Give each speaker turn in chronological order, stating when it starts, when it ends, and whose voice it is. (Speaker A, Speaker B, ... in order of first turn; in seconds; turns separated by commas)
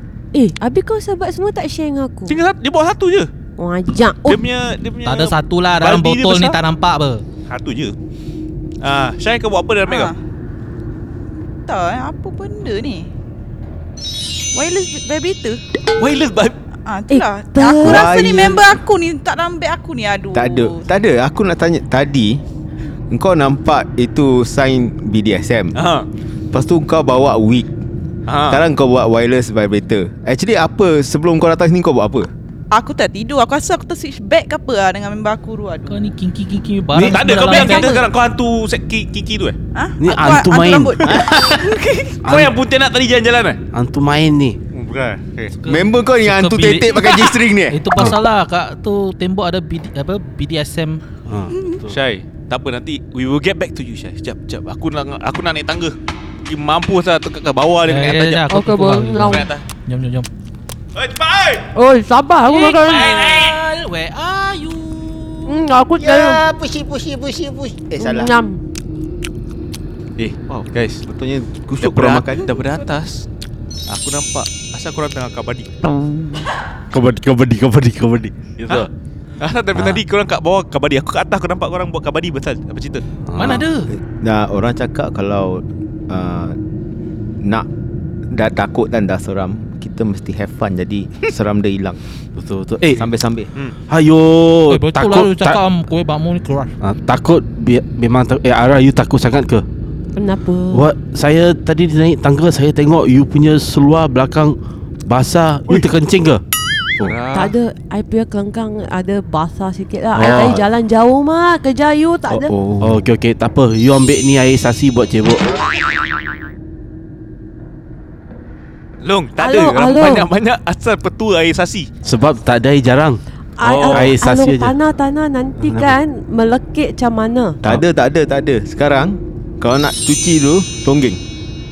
Speaker A: 0.3-2.4, Speaker B: 2.3-3.3, Speaker A: 3.6-4.5, Speaker B: 4.2-6.6, Speaker C: 5.0-7.2, Speaker B: 7.5-7.9, Speaker B: 8.8-10.1, Speaker D: 9.9-10.2, Speaker D: 11.7-13.1, Speaker D: 14.5-15.6, Speaker B: 16.0-16.6, Speaker D: 16.9-20.8, Speaker A: 17.1-18.1, Speaker E: 17.8-18.7, Speaker E: 20.3-22.4, Speaker E: 23.1-25.8, Speaker B: 25.7-26.1, Speaker E: 26.5-27.7, Speaker B: 28.3-28.6, Speaker E: 28.5-32.3, Speaker D: 32.7-36.1, Speaker C: 35.9-38.0, Speaker B: 36.9-39.6, Speaker D: 37.5-37.9, Speaker D: 39.7-42.2, Speaker F: 40.0-41.1, Speaker B: 41.0-41.7, Speaker F: 42.2-42.5, Speaker B: 42.2-43.6, Speaker F: 43.7-44.6, Speaker B: 44.7-45.5, Speaker C: 45.6-51.0, Speaker E: 45.6-47.8, Speaker F: 51.2-52.0, Speaker D: 51.5-51.8, Speaker B: 51.9-58.5, Speaker C: 57.9-60.3, Speaker A: 58.5-59.5, Speaker B: 59.2-59.6, Speaker B: 60.9-61.7, Speaker A: 61.7-63.1, Speaker C: 62.4-65.6, Speaker B: 62.8-63.6, Speaker A: 65.5-66.4, Speaker E: 66.0-68.3, Speaker A: 68.0-68.6, Speaker B: 70.2-71.0, Speaker E: 70.5-72.5, Speaker B: 71.8-73.2, Speaker B: 73.9-75.7, Speaker F: 76.9-78.9, Speaker B: 79.4-83.0, Speaker F: 79.8-80.0, Speaker F: 83.3-83.6, Speaker C: 83.3-83.9, Speaker E: 83.9-86.5, Speaker E: 87.4-87.7, Speaker E: 88.3-92.0, Speaker F: 92.3-93.0, Speaker E: 92.9-93.5, Speaker F: 93.9-95.6, Speaker C: 94.7-96.7, Speaker F: 96.8-99.6, Speaker A: 100.2-100.9, Speaker F: 100.7-106.4, Speaker B: 107.0-107.5, Speaker A: 107.3-112.5, Speaker F: 110.1-110.6, Speaker E: 110.2-110.6, Speaker E: 112.3-113.0, Speaker F: 112.8-115.4, Speaker B: 119.0-121.9, Speaker A: 119.4-120.3, Speaker F: 122.0-123.2, Speaker A: 123.6-127.6, Speaker B: 123.6-124.1, Speaker F: 123.8-124.8, Speaker F: 125.6-126.0, Speaker E: 127.6-131.2